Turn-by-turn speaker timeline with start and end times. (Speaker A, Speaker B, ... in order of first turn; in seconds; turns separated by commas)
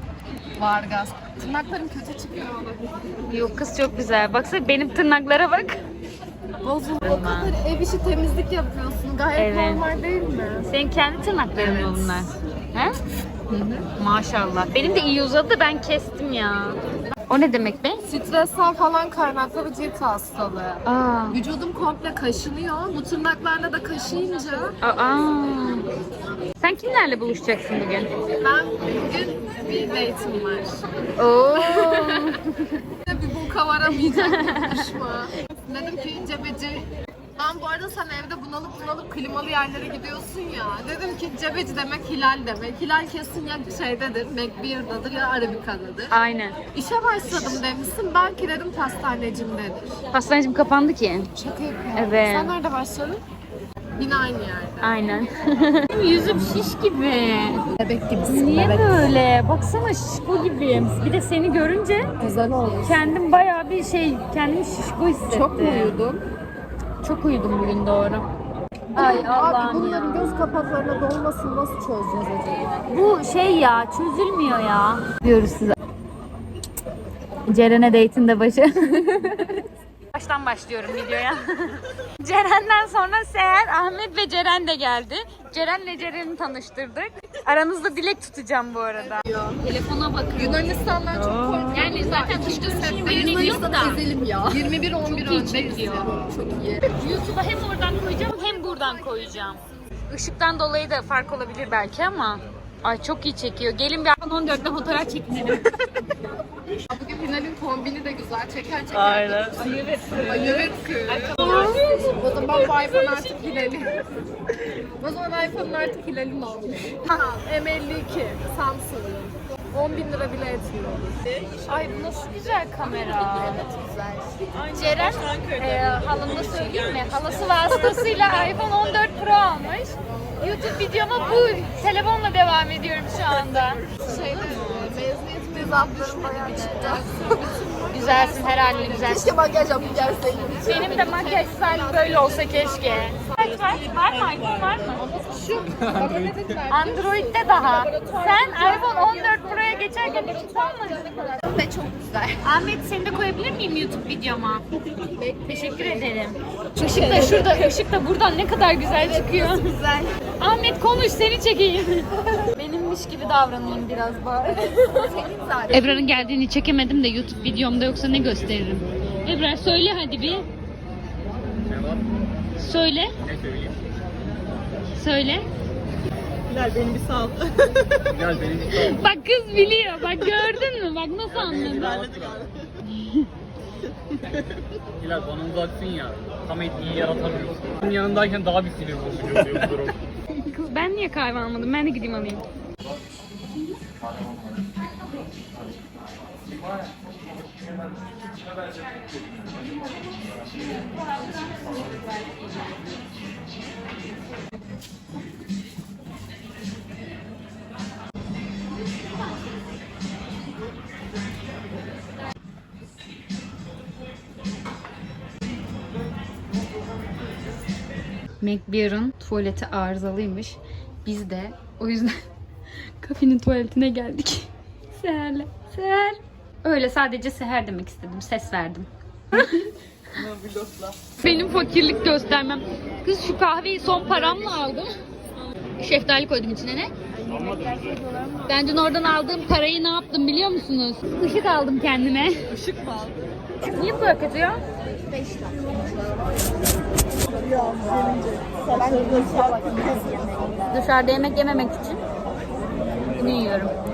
Speaker A: 0.6-3.0, Speaker B: 3.3-5.8, Speaker A: 6.6-10.7, Speaker B: 7.0-7.5, Speaker B: 9.4-9.8, Speaker B: 10.7-12.9, Speaker A: 11.6-12.4, Speaker A: 13.5-13.9, Speaker B: 14.0-18.0, Speaker A: 18.1-24.8, Speaker B: 20.9-21.4, Speaker B: 24.8-25.9, Speaker B: 26.6-28.1, Speaker A: 28.4-30.8, Speaker B: 31.2-32.8, Speaker A: 31.6-32.3, Speaker A: 33.0-46.1, Speaker B: 34.0-34.9, Speaker B: 46.1-46.6, Speaker A: 46.7-50.0, Speaker B: 50.1-51.3, Speaker A: 51.4-53.2, Speaker B: 52.0-52.5, Speaker A: 54.0-54.9, Speaker B: 54.8-57.7, Speaker A: 57.8-59.1, Speaker B: 58.3-62.1, Speaker A: 62.2-63.1, Speaker B: 62.9-66.0, Speaker A: 65.3-66.2, Speaker B: 67.0-68.3, Speaker B: 68.9-70.3, Speaker A: 69.0-72.8, Speaker B: 72.9-75.8, Speaker B: 77.5-79.1, Speaker B: 80.1-96.1, Speaker A: 89.3-89.6, Speaker A: 90.4-97.0, Speaker B: 97.0-105.7, Speaker A: 106.9-109.6, Speaker C: 108.9-109.6, Speaker B: 109.5-111.9, Speaker A: 110.2-114.0, Speaker A: 115.0-121.6, Speaker B: 121.7-123.7, Speaker A: 123.3-124.3, Speaker B: 124.7-133.9, Speaker A: 133.9-143.5, Speaker B: 134.4-134.9, Speaker B: 136.4-137.1, Speaker B: 137.9-139.4, Speaker B: 140.6-145.0, Speaker A: 144.9-152.4, Speaker C: 145.8-146.5, Speaker B: 146.7-151.0, Speaker B: 152.4-154.7, Speaker A: 155.0-156.1, Speaker B: 155.4-159.8, Speaker A: 156.8-157.7, Speaker A: 159.4-160.2, Speaker B: 160.4-164.8, Speaker A: 164.8-166.1, Speaker B: 165.7-170.4, Speaker C: 171.7-172.1, Speaker B: 172.6-173.2, Speaker C: 173.2-173.8, Speaker B: 175.0-175.5, Speaker C: 176.5-179.0, Speaker B: 178.7-182.0, Speaker C: 181.3-182.5, Speaker C: 185.0-190.0, Speaker B: 190.3-192.4, Speaker B: 200.5-202.4, Speaker B: 218.4-222.2, Speaker B: 223.0-229.7, Speaker C: 230.3-230.9, Speaker B: 231.2-234.9, Speaker B: 235.8-236.9, Speaker A: 237.2-238.5, Speaker B: 238.5-242.5, Speaker C: 242.5-243.1, Speaker B: 243.6-244.6, Speaker A: 245.1-246.4, Speaker A: 247.2-250.7, Speaker B: 250.7-252.0, Speaker B: 253.1-253.7